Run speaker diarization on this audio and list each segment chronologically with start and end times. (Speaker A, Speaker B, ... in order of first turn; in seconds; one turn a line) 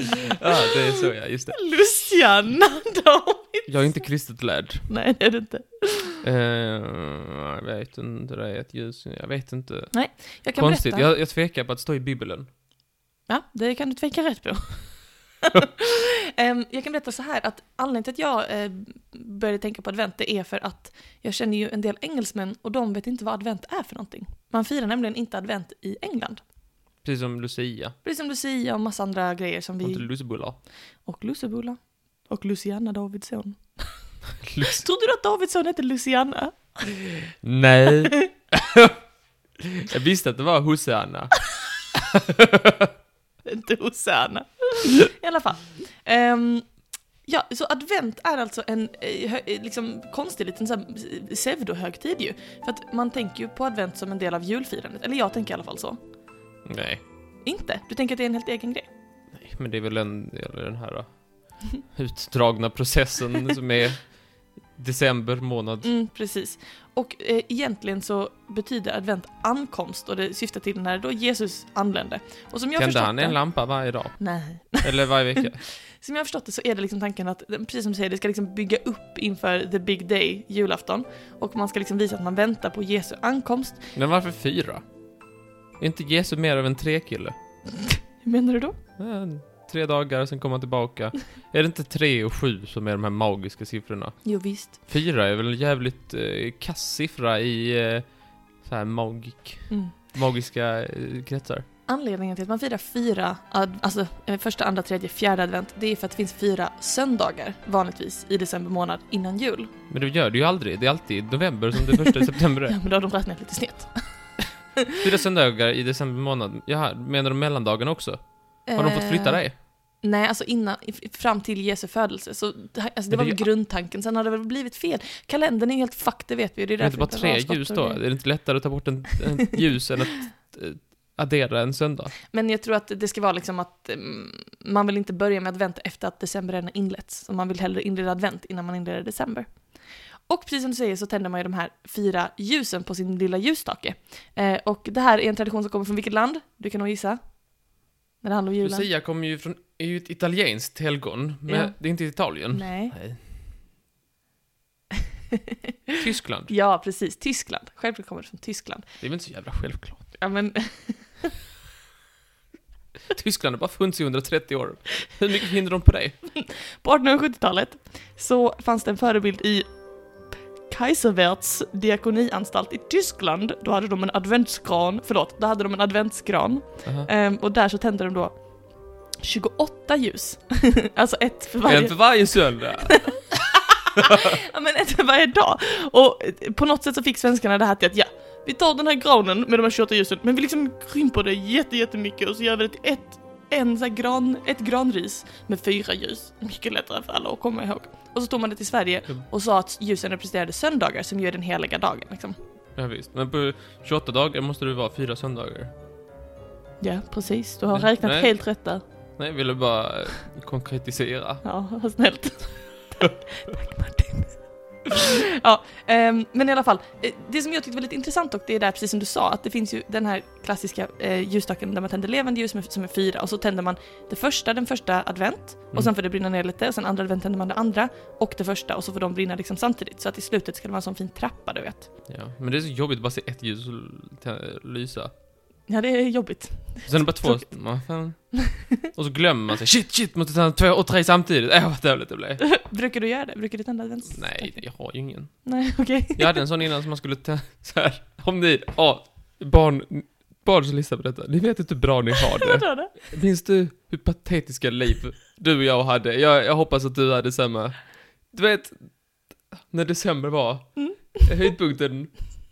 Speaker A: 0.2-1.6
Speaker B: 1.5-4.0
Speaker A: 3.7-4.9
Speaker B: 4.9-6.2
Speaker A: 6.2-12.5
Speaker B: 9.9-11.1
Speaker B: 13.3-26.4
Speaker A: 27.0-27.9
Speaker B: 28.0-30.5
Speaker A: 29.8-30.6
Speaker B: 31.0-34.0
Speaker A: 34.4-34.9
Speaker B: 34.6-37.0
Speaker A: 37.4-39.0
Speaker A: 39.6-42.9
Speaker B: 43.5-46.7
Speaker B: 47.2-56.0
Speaker A: 56.6-57.0
Speaker B: 57.4-58.9
Speaker A: 59.3-65.9
Speaker B: 65.8-73.7
Speaker A: 72.8-75.6
Speaker B: 74.2-83.8
Speaker A: 84.0-84.8
Speaker A: 85.8-87.3
Speaker B: 87.9-88.8
Speaker A: 89.0-101.6
Speaker B: 94.2-94.8
Speaker B: 99.7-99.9
Speaker B: 101.9-109.7
Speaker A: 109.9-112.8
Speaker B: 111.9-113.9
Speaker A: 115.0-119.5
Speaker B: 118.7-128.0
Speaker A: 123.1-123.4
Speaker A: 126.8-132.1
Speaker B: 132.3-139.5
Speaker B: 140.3-147.3
Speaker B: 148.2-148.9
Speaker A: 148.6-153.3
Speaker B: 151.5-151.8
Speaker B: 152.5-152.9
Speaker A: 156.0-156.5
Speaker B: 156.5-158.8
Speaker A: 159.0-160.2
Speaker B: 160.2-161.3
Speaker A: 163.1-166.2
Speaker B: 166.3-169.7
Speaker B: 170.7-178.4
Speaker B: 179.2-202.3
Speaker A: 181.7-183.2
Speaker A: 184.0-184.3
Speaker A: 202.8-205.7
Speaker B: 206.8-208.8
Speaker A: 207.7-208.5
Speaker A: 209.2-211.4
Speaker B: 211.4-231.9
Speaker A: 232.1-235.1
Speaker B: 235.7-237.7
Speaker A: 236.9-242.5
Speaker B: 238.3-238.7
Speaker B: 242.4-244.6
Speaker A: 244.1-257.8
Speaker B: 245.4-246.4
Speaker B: 252.3-252.9
Speaker A: 258.3-259.1
Speaker A: 259.6-262.2
Speaker B: 260.8-261.5